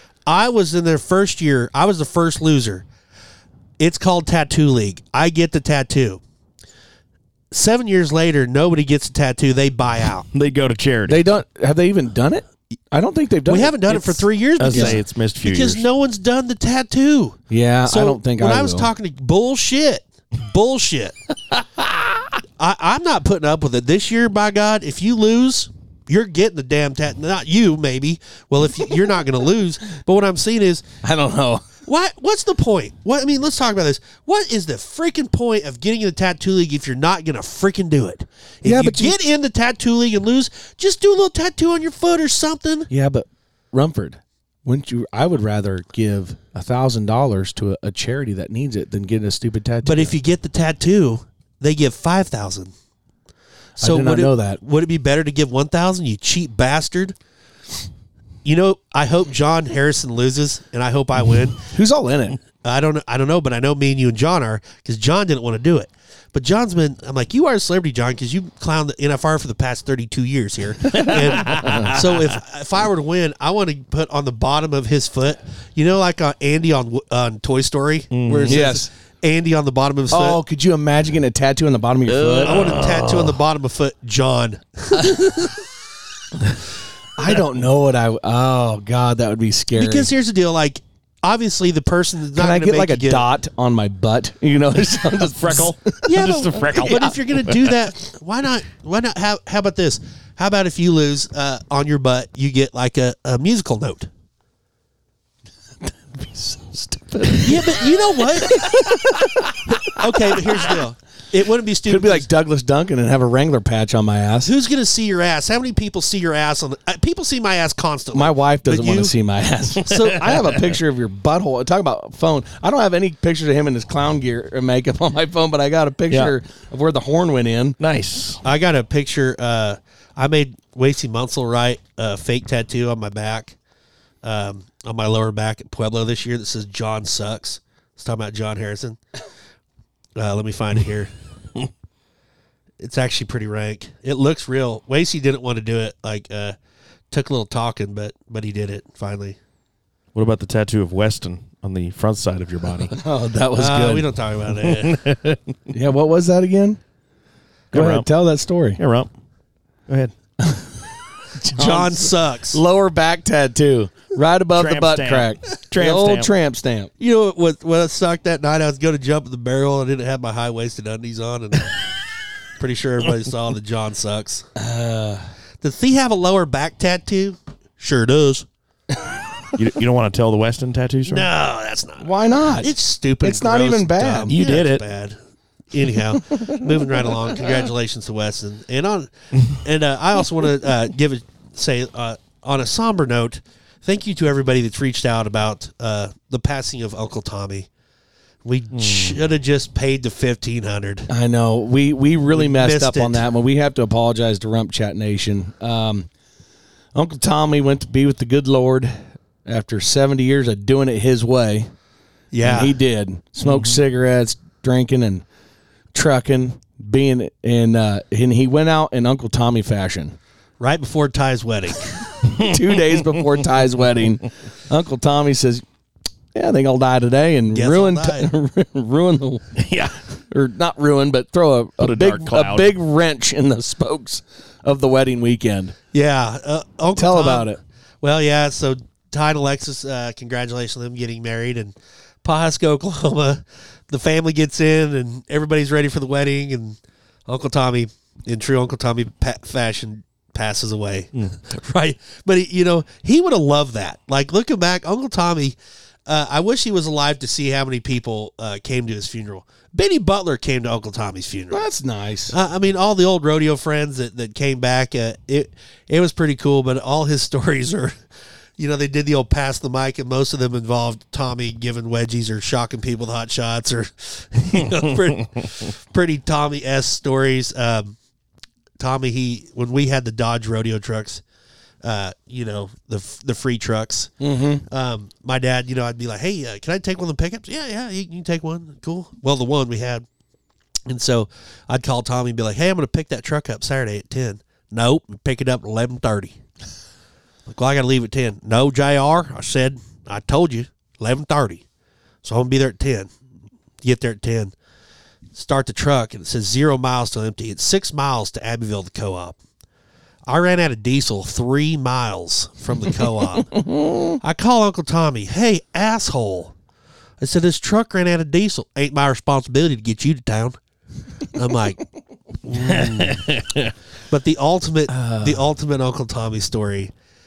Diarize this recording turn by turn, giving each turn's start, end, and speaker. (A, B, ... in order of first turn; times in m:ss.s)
0:00.3-0:02.8 A
0:03.8-0:06.2 A
0:07.5-0:10.3 A
0:10.3-0:11.2 B
0:11.1-0:15.0 C
0:13.5-0:21.1 A
0:14.6-0:15.8 B
0:17.5-0:18.9 C
0:22.6-0:30.8 A
0:31.0-0:31.6 C
0:31.8-0:42.9 A
0:38.6-0:39.2 C
0:42.9-0:50.1 C
0:49.8-0:52.7 A
0:53.8-0:54.6 C
0:53.8-0:57.2 A
0:58.4-1:01.7 A
1:01.7-1:02.4 C
1:02.6-1:20.4 A
1:11.0-1:12.0 C
1:11.4-1:12.0 B
1:18.1-1:18.6 B
1:18.5-1:18.9 C
1:20.1-1:22.8 C
1:22.1-1:23.4 B
1:22.4-1:25.6 A
1:27.2-1:30.1 C
1:29.8-1:33.3 A
1:32.3-1:36.1 C
1:35.2-1:37.8 B
1:36.0-1:44.1 A
1:36.7-1:37.1 C
1:45.8-1:50.8 C
1:47.4-1:48.8 A
1:49.7-1:52.3 A
1:51.8-1:54.5 C
1:54.4-1:59.1 A
1:58.1-2:07.8 C
1:59.9-2:00.6 B
2:07.8-2:08.4 B
2:08.4-2:13.6 A
2:14.2-2:19.0 A
2:20.2-2:21.1 A
2:22.8-2:26.6 A
2:27.1-2:29.4 A
2:30.1-2:32.9 B
2:32.9-2:34.0 C
2:33.6-2:35.0 A
2:34.6-2:35.4 B
2:35.7-2:36.8 C
2:37.7-2:38.0 B
2:37.7-2:38.8 C
2:38.8-2:39.1 B
2:40.4-2:46.9 C
2:41.5-2:42.6 A
2:44.5-2:46.3 B
2:47.0-2:51.8 A
2:52.6-2:54.5 A
2:54.6-2:55.2 C
2:55.6-2:58.4 A
2:59.5-3:01.3 B
3:01.1-3:05.2 A
3:02.0-3:04.3 C
3:04.3-3:04.8 B
3:05.7-3:17.7 A
3:06.3-3:07.1 C
3:18.4-3:21.1 A
3:18.7-3:19.2 B
3:21.1-3:26.1 C
3:22.3-3:23.2 A
3:26.9-3:31.7 C
3:32.3-3:32.7 A
3:32.4-3:35.2 C
3:33.4-3:33.7 B
3:35.9-3:40.2 C
3:40.6-3:42.0 A
3:42.2-3:42.6 B
3:42.4-3:45.6 C
3:46.3-3:49.6 C
3:47.5-3:48.3 A
3:49.6-3:49.9 B
3:50.3-3:55.7 C
3:51.8-3:52.8 B
3:55.9-4:21.7 A
3:56.9-3:57.6 C
4:21.5-4:22.4 C
4:22.3-4:27.9 A
4:28.6-4:38.0 A
4:38.8-4:41.2 A
4:41.8-4:44.1 A
4:44.2-4:44.6 C
4:44.7-4:50.0 A
4:50.9-4:56.4 A
4:57.4-5:01.6 A
5:02.2-5:03.1 A
5:03.8-5:04.5 A
5:05.3-5:09.4 A
5:10.3-5:16.5 A
5:13.7-5:14.1 C
5:17.2-5:20.6 A
5:21.3-5:21.8 A
5:22.4-5:23.3 A
5:22.8-5:23.7 B
5:24.1-5:26.9 A
5:24.9-5:25.4 C